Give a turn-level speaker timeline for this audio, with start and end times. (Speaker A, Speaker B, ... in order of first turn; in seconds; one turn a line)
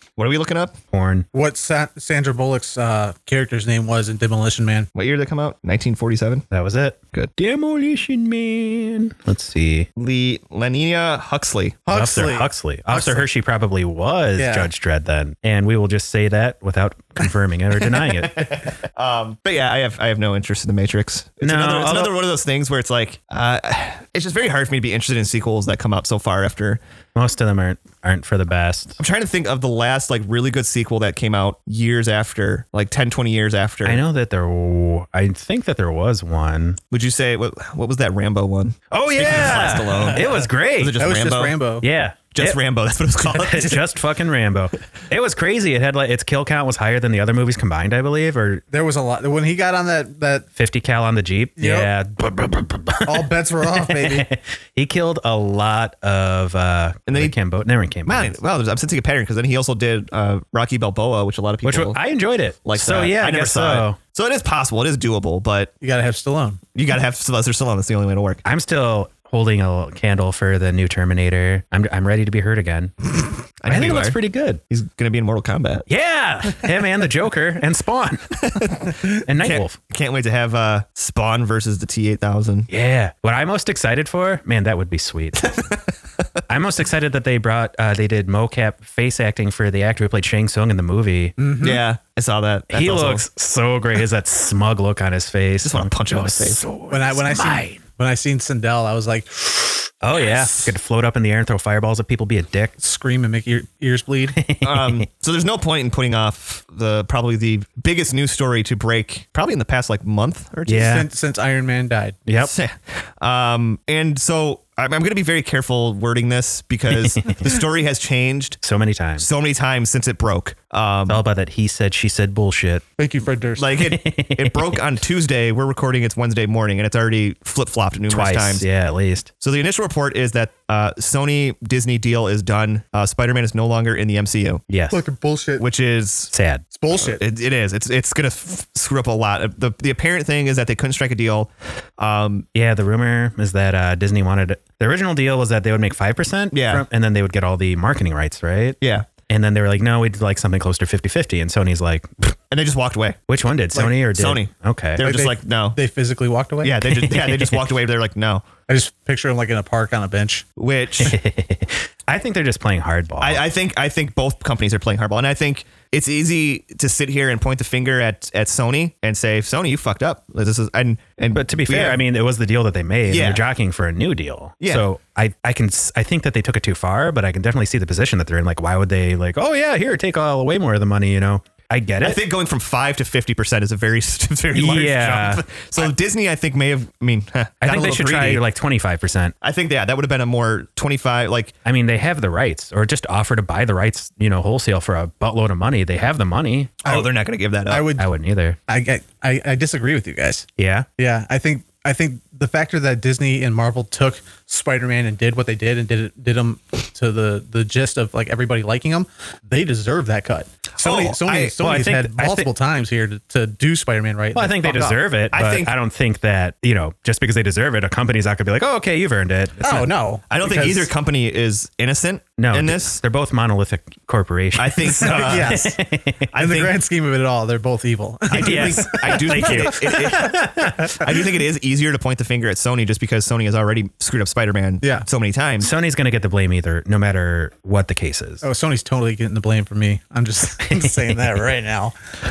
Speaker A: 0.2-0.8
Speaker B: 0.9-1.2
Speaker C: 1.3-4.9
Speaker A: 4.9-6.5
Speaker B: 6.5-9.9
Speaker A: 9.9-12.0
Speaker C: 11.8-13.3
Speaker B: 11.9-18.6
Speaker C: 14.4-14.7
Speaker A: 17.9-26.8
Speaker B: 21.4-22.1
Speaker B: 27.1-29.0
Speaker A: 29.0-34.0
Speaker B: 33.8-36.8
Speaker A: 36.9-41.5
Speaker B: 38.9-41.0
Speaker C: 41.0-41.9
Speaker B: 41.8-42.6
Speaker A: 42.3-43.7
Speaker B: 43.3-48.6
Speaker C: 43.4-43.8
Speaker C: 48.7-50.5
Speaker B: 50.6-58.4
Speaker C: 51.6-51.9
Speaker C: 53.0-54.3
Speaker A: 57.1-57.3
Speaker A: 58.0-62.0
Speaker B: 61.6-64.0
Speaker A: 62.6-65.7
Speaker C: 65.8-66.6
Speaker A: 66.7-68.4
Speaker B: 68.5-73.1
Speaker A: 73.6-74.2
Speaker B: 73.7-74.6
Speaker A: 74.7-75.9
Speaker B: 75.9-78.4
Speaker A: 78.4-82.7
Speaker B: 79.0-79.8
Speaker B: 82.7-85.6
Speaker B: 86.5-91.3
Speaker C: 91.4-91.8
Speaker A: 91.6-93.2
Speaker B: 92.7-97.8
Speaker A: 95.6-96.6
Speaker C: 96.9-99.7
Speaker B: 100.0-102.7
Speaker C: 102.8-104.4
Speaker B: 104.4-105.0
Speaker A: 104.6-111.0
Speaker B: 110.7-111.1
Speaker C: 110.7-112.2
Speaker B: 112.3-112.5
Speaker A: 112.4-118.6
Speaker B: 116.9-117.5
Speaker B: 118.6-119.3
Speaker A: 119.2-121.2
Speaker B: 121.1-122.8
Speaker C: 123.0-123.7
Speaker A: 123.6-128.6
Speaker B: 123.8-124.8
Speaker B: 128.1-129.3
Speaker A: 129.4-134.6
Speaker B: 134.7-135.0
Speaker C: 134.9-135.6
Speaker A: 135.6-136.3
Speaker B: 136.3-136.6
Speaker C: 136.7-137.2
Speaker A: 137.0-142.4
Speaker B: 142.5-152.3
Speaker A: 146.5-146.8
Speaker A: 148.8-149.1
Speaker A: 152.5-153.2
Speaker B: 153.3-155.0
Speaker A: 153.7-155.8
Speaker C: 155.0-156.8
Speaker A: 156.6-158.4
Speaker B: 156.9-157.6
Speaker C: 158.7-160.4
Speaker A: 160.6-161.2
Speaker B: 161.0-163.4
Speaker A: 163.2-172.0
Speaker B: 171.3-182.2
Speaker A: 173.1-173.4
Speaker A: 182.0-188.4
Speaker B: 184.5-185.4
Speaker B: 187.6-189.3
Speaker A: 189.4-191.5
Speaker B: 191.7-196.8
Speaker A: 196.8-197.9
Speaker C: 197.7-198.1
Speaker B: 198.0-198.6
Speaker C: 198.7-200.4
Speaker B: 200.6-200.9
Speaker C: 201.0-215.0
Speaker A: 210.8-211.6
Speaker B: 211.6-212.5
Speaker B: 214.3-219.9
Speaker A: 215.3-215.7
Speaker C: 219.6-220.9
Speaker A: 220.3-223.0
Speaker B: 222.4-226.3
Speaker A: 224.6-225.6
Speaker C: 224.9-225.8
Speaker A: 226.3-226.8
Speaker C: 226.3-230.9
Speaker A: 228.3-235.7
Speaker B: 228.3-231.0
Speaker B: 235.6-238.4
Speaker C: 238.4-241.9
Speaker B: 240.7-241.0